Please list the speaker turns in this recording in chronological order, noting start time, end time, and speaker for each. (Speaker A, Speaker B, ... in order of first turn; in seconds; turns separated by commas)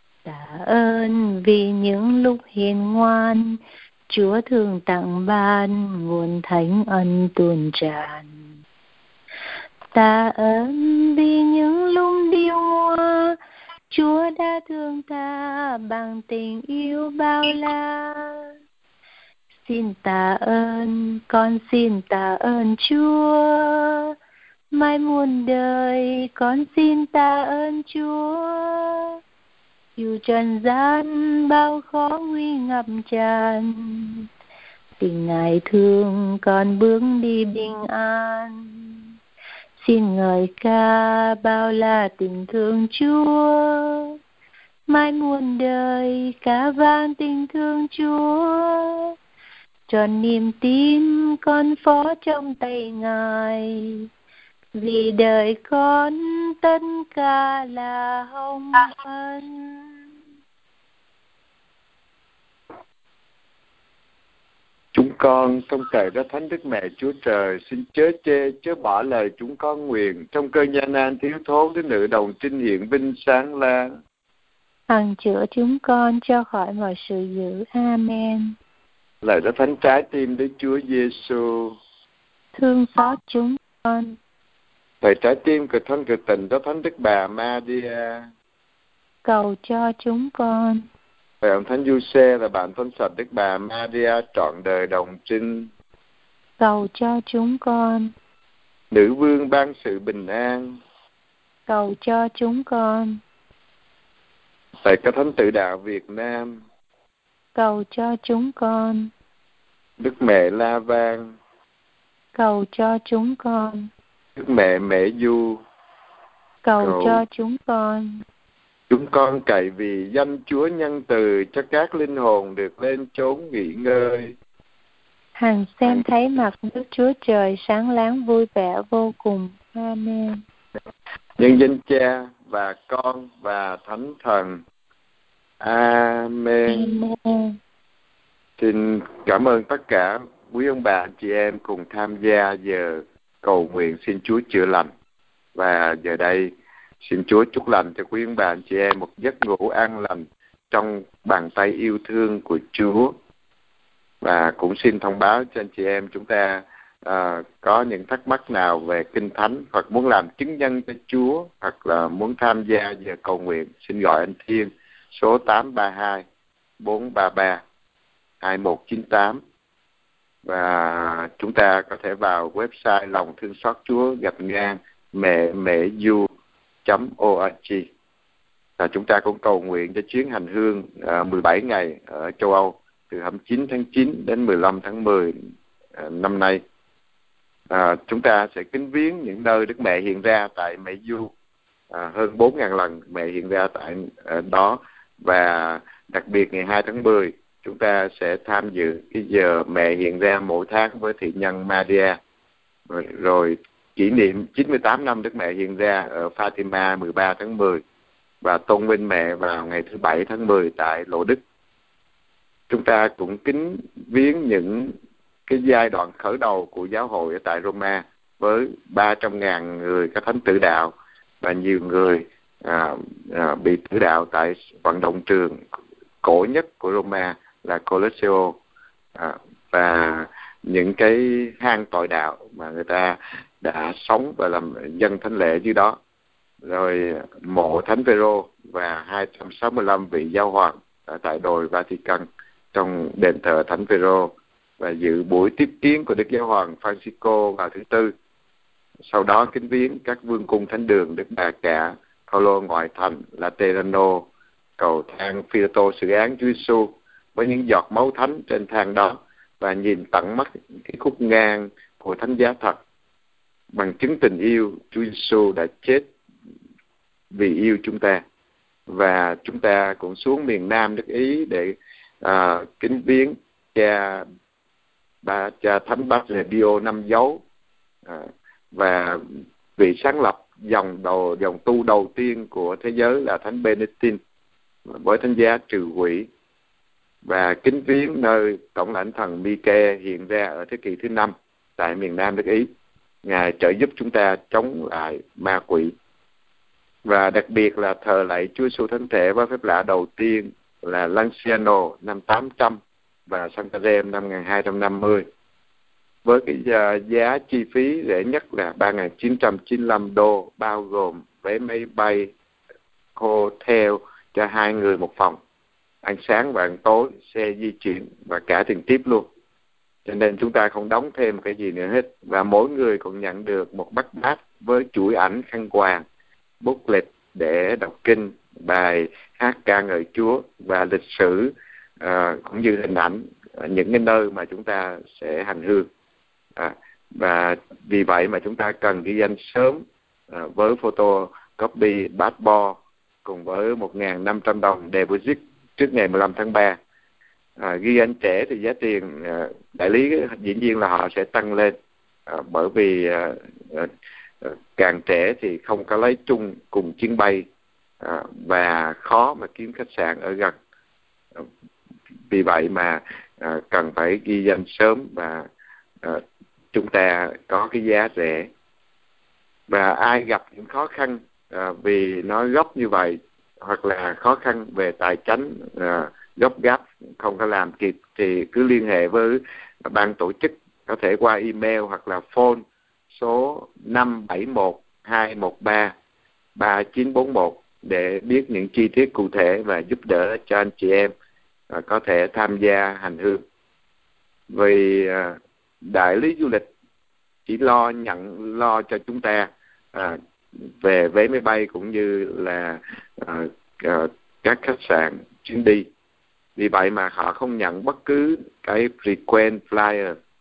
Speaker A: 0.2-8.4, Speaker A: 9.9-13.4, Speaker A: 13.9-18.5, Speaker A: 19.6-24.1, Speaker A: 24.7-29.2, Speaker A: 30.0-34.3, Speaker A: 35.0-39.1, Speaker A: 39.8-44.2, Speaker A: 44.9-49.1, Speaker A: 49.9-54.1, Speaker A: 54.8-60.0, Speaker B: 64.9-73.9, Speaker A: 74.9-78.5, Speaker B: 79.2-81.8, Speaker A: 82.5-84.2, Speaker B: 85.0-88.3, Speaker A: 89.2-90.8, Speaker B: 91.4-95.7, Speaker A: 96.6-98.1, Speaker B: 98.9-100.8, Speaker A: 101.7-103.2, Speaker B: 104.8-106.6, Speaker A: 107.5-109.1, Speaker B: 110.0-111.3, Speaker A: 112.3-113.9, Speaker B: 114.4-115.6, Speaker A: 116.6-118.2, Speaker B: 116.8-117.2, Speaker B: 118.9-124.3, Speaker A: 125.4-130.4, Speaker B: 131.4-134.6, Speaker B: 135.6-137.0, Speaker A: 136.7-137.6, Speaker B: 138.6-144.9, Speaker B: 145.6-146.5, Speaker B: 147.0-153.1, Speaker B: 154.2-166.2, Speaker B: 166.8-167.6, Speaker B: 168.4-169.4, Speaker B: 170.4-176.3, Speaker B: 176.8-177.9, Speaker B: 178.8-185.4, Speaker B: 185.9-186.6, Speaker B: 187.7-191.3, Speaker B: 191.9-202.2, Speaker B: 202.9-207.8, Speaker B: 208.4-211.4, Speaker B: 212.7-214.9, Speaker B: 215.5-225.6, Speaker B: 226.2-228.6, Speaker B: 229.2-236.0, Speaker B: 236.6-248.1, Speaker B: 249.1-254.3, Speaker B: 254.8-262.8, Speaker B: 263.7-266.1, Speaker B: 267.3-268.2, Speaker B: 268.9-274.3, Speaker B: 275.2-277.4, Speaker B: 278.1-284.2, Speaker B: 284.9-286.3, Speaker B: 287.2-292.7, Speaker B: 293.2-295.9, Speaker B: 297.1-305.2, Speaker B: 306.2-312.3, Speaker B: 313.2-315.4, Speaker B: 316.0-319.3, Speaker B: 320.1-326.0, Speaker B: 326.6-335.9, Speaker B: 336.6-346.8, Speaker B: 347.6-351.8, Speaker B: 352.3-353.9, Speaker B: 354.4-357.5, Speaker B: 358.0-360.6, Speaker B: 362.3-365.5, Speaker B: 366.0-368.5, Speaker B: 369.7-385.9, Speaker B: 386.6-391.1, Speaker B: 391.7-393.4, Speaker B: 394.5-396.7, Speaker B: 397.4-405.9, Speaker B: 406.6-410.2